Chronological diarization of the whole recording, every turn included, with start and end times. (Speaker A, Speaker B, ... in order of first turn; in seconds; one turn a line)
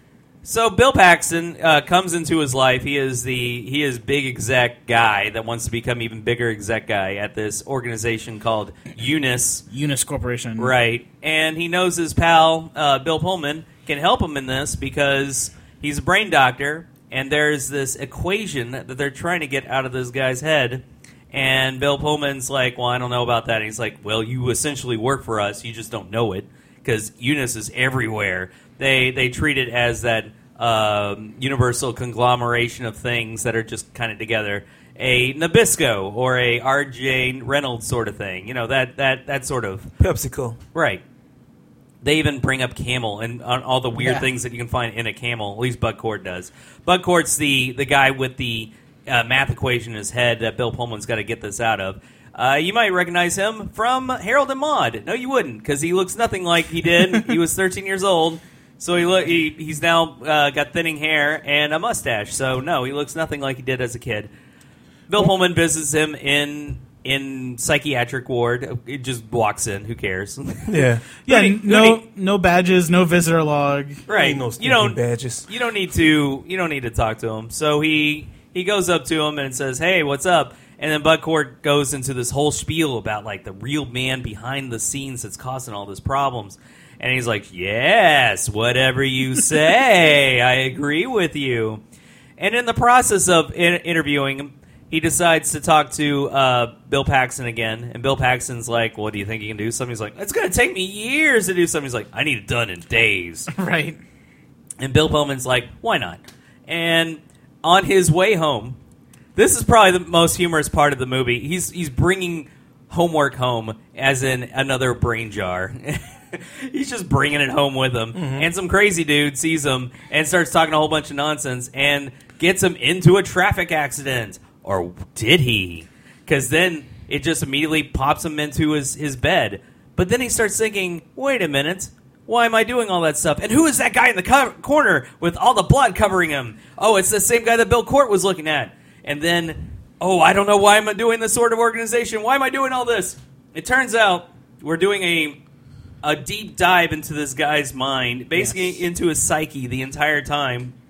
Speaker A: 0.4-9.6
Speaker B: 9.7-10.7
Speaker A: 10.6-39.9
Speaker C: 40.0-40.6
Speaker A: 40.7-41.0
Speaker A: 42.0-64.3
Speaker B: 44.0-44.3
Speaker A: 65.1-72.0
Speaker C: 70.7-71.0
Speaker B: 71.2-74.0
Speaker A: 74.1-91.8
Speaker C: 74.1-75.5
Speaker A: 92.4-103.5
Speaker B: 103.5-104.0
Speaker A: 104.8-108.8
Speaker A: 109.3-145.4
Speaker C: 118.1-118.5
Speaker A: 146.0-150.7
Speaker B: 148.3-148.7